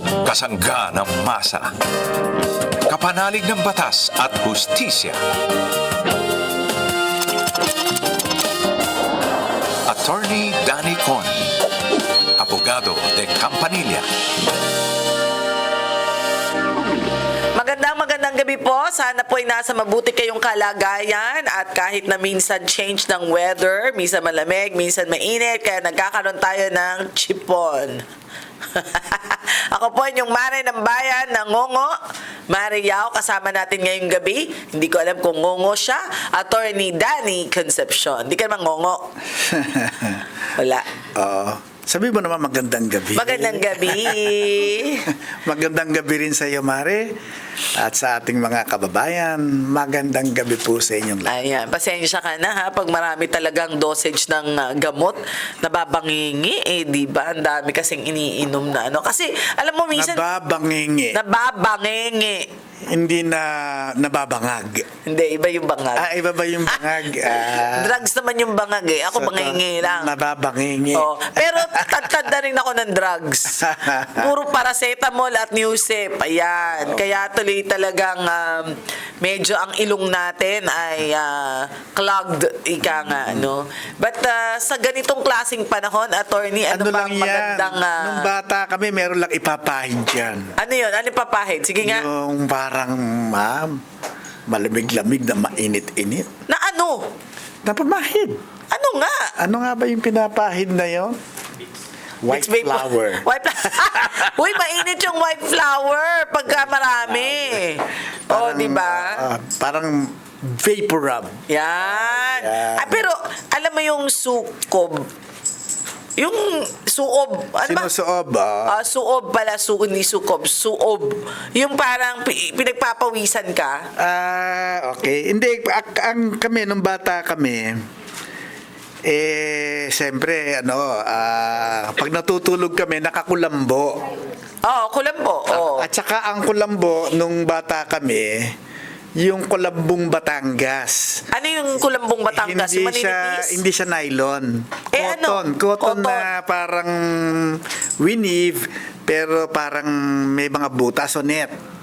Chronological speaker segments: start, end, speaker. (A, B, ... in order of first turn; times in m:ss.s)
0:00.2-0:01.7 A
0:02.8-0:05.2 A
0:09.8-0:11.6 A
0:12.4-0:14.0 A
0:17.5-0:28.0 B
0:28.7-0:32.0 B
0:32.5-0:39.1 B
0:39.4-0:40.2 C
0:40.5-0:40.9 B
0:41.1-0:44.5 C
0:43.1-0:45.1 B
0:45.1-0:47.1 C
0:47.7-0:51.4 C
0:51.2-1:00.2 B
0:59.9-1:01.2 C
1:01.1-1:02.5 B
1:02.9-1:04.8 C
1:05.0-1:06.1 B
1:06.0-1:08.0 C
1:06.7-1:10.1 B
1:09.1-1:12.1 C
1:10.9-1:28.3 B
1:13.6-1:14.3 C
1:16.7-1:17.1 C
1:22.8-1:23.5 C
1:26.7-1:30.5 C
1:30.6-1:32.0 B
1:31.8-1:33.8 C
1:34.5-1:36.3 C
1:36.5-1:37.0 B
1:37.6-1:38.4 C
1:38.7-1:39.3 B
1:39.4-1:41.2 C
1:42.2-1:44.4 C
1:42.3-1:49.2 B
1:46.9-1:47.6 C
1:48.3-1:53.0 C
1:51.5-1:55.1 B
1:56.2-1:57.9 B
1:57.6-1:58.8 C
1:58.7-2:03.9 B
2:04.0-2:07.8 C
2:09.0-2:14.0 C
2:14.6-2:15.9 B
2:15.5-2:18.5 C
2:19.2-2:21.2 C
2:21.3-2:23.6 B
2:22.3-2:31.5 C
2:24.9-2:26.3 B